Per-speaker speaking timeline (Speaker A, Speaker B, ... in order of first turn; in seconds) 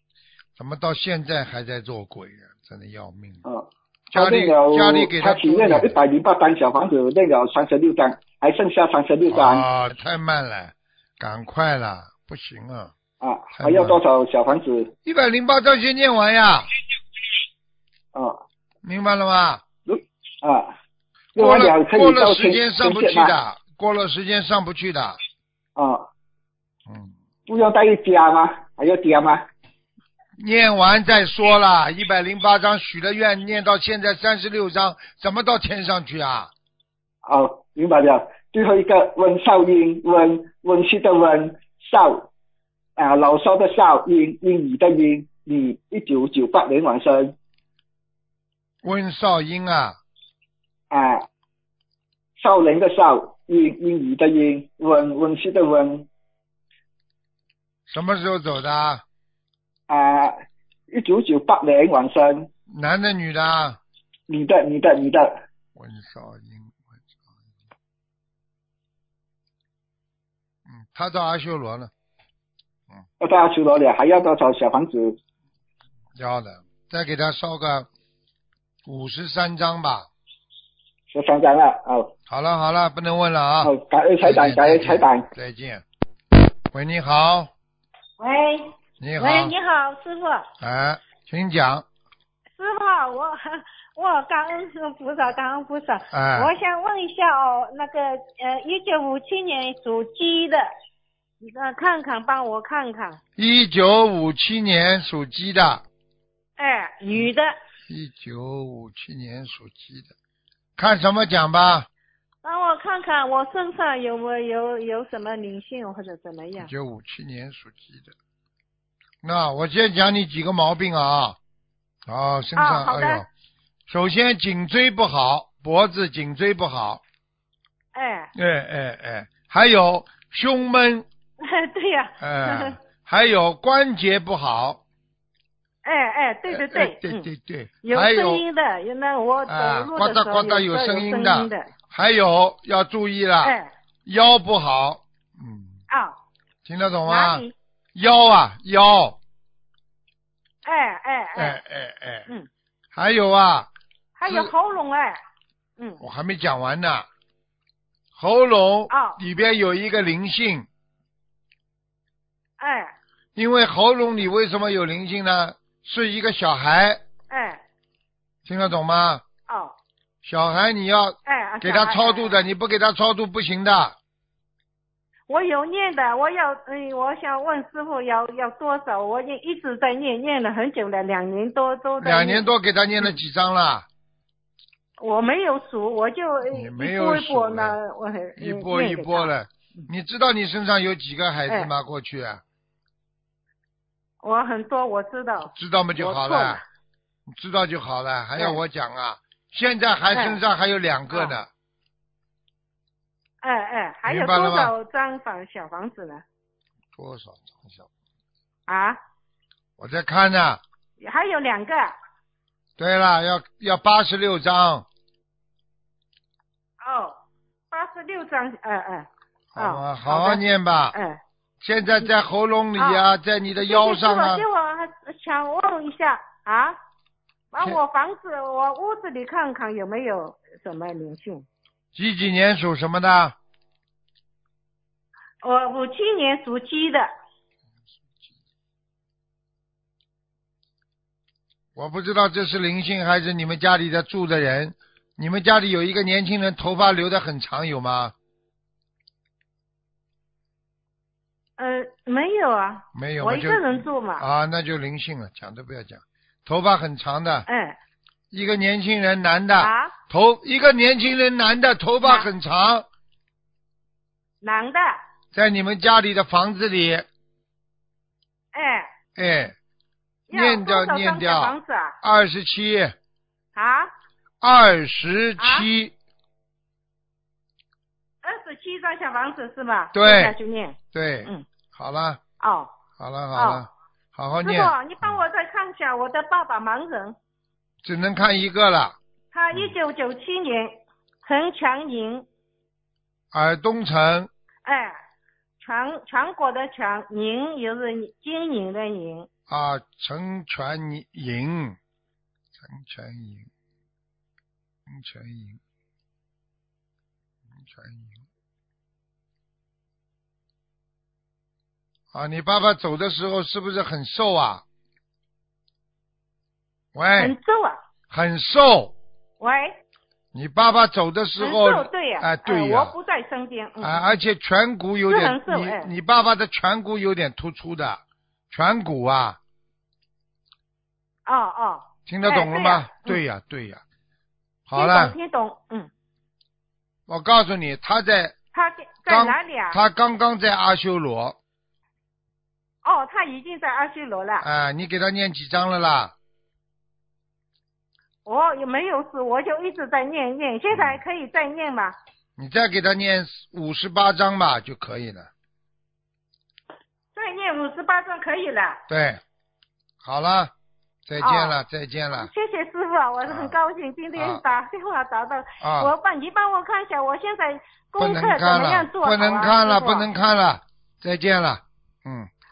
Speaker A: 0.6-3.4, 4.1-6.0, 9.3-12.9, 13.6-14.0, 15.0-16.7, 18.8-19.7, 21.4-25.2, 26.9-27.1, 30.4-36.5, 48.8-50.0, 57.9-59.0, 62.7-63.8, 65.8-67.0, 70.7-71.9, 76.2-77.9, 78.8-80.1, 82.3-85.8, 86.7-87.5, 89.0-89.5, 90.6-91.8, 96.1-96.5, 103.4-105.8, 107.9-110.1, 110.8-111.9, 116.6-118.1, 119.2-121.4, 122.1-123.3, 123.9-127.0, 128.3-131.1, 132.2-134.8, 136.5-138.4, 139.5-143.6, 144.1-145.8, 146.6-147.4, 147.9-149.2, 151.4-152.3, 152.9-153.7, 154.2-154.5, 156.0-157.1, 158.2-160.7, 163.4-167.0, 168.4-169.2, 170.2-173.9, 182.0-183.9, 186.5-187.8, 188.4-192.4, 195.5-196.6, 197.3-201.5, 204.1-204.7, 206.9-207.9, 209.8-210.6, 212.8-214.9, 219.5-220.9, 221.6-224.4, 231.9-233.4, 241.8-248.1, 252.9-257.4, 258.3-262.9, 265.3-267.1, 269.1-269.6, 270.3-272.9, 274.4-275.9, 279.9-280.4, 280.9-282.2, 283.0-285.2, 287.8-289.0, 293.3-294.3, 299.5-301.8, 302.6-303.5, 304.9-305.6, 307.6-308.2, 312.1-314.6, 316.9-317.4, 318.1-318.9, 320.3-322.9, 323.8-329.4, 332.1-333.8, 334.7-335.1, 337.1-338.4, 339.1-341.4, 344.4-346.1, 350.7-351.0, 352.4-355.3, 358.9-359.2, 360.0-360.5, 361.1-362.3, 363.3-363.5, 364.1-364.4, 365.6-365.9, 368.0-372.3
Speaker B: 3.4-9.7, 13.2-14.9, 18.1-18.4, 19.8-20.7, 21.4-23.4, 25.8-26.1, 27.5-29.5, 37.2-42.3, 43.0-47.4, 50.9-51.2, 52.4-56.1, 59.9-62.5, 64.3-65.4, 73.2-75.2, 81.1-82.1, 83.6-85.3
Speaker C: 88.2-90.5, 92.6-100.7, 101.4-103.2, 106.6-107.5, 112.4-116.7, 122.6-123.2, 127.9-128.3, 131.4-132.8, 135.8-137.3, 137.8-141.7, 143.4-143.7, 145.9-146.2, 147.1-147.5, 150.6-151.6, 154.2-155.2, 158.9-159.2, 162.6-162.9, 167.3-167.6, 169.5-169.8, 171.2-172.4, 175.3-182.4, 185.0-189.9, 194.2-196.6, 200.1-200.4, 203.4-206.2, 208.7-209.0, 211.0-211.9, 216.8-217.2, 217.7-220.4, 220.9-221.2, 222.8-223.1, 223.7-226.8, 227.5-231.5, 235.4-237.1, 251.6-254.2, 257.5-257.8, 259.6-259.9, 262.0-262.3, 264.4-265.0, 268.5-268.9, 270.3-272.0, 273.6-273.9, 275.4-275.7, 278.2-281.4, 282.4-282.7, 283.3-283.6, 284.4-287.1, 289.3-292.2, 294.6-295.0, 295.6-299.3, 317.1-317.8, 319.4-319.8, 321.4-324.1, 325.1-325.9, 331.2-333.2, 334.8-335.9, 338.5-339.8, 342.8-344.4, 348.2-351.9, 357.1-358.8, 361.2-361.6, 362.1-370.1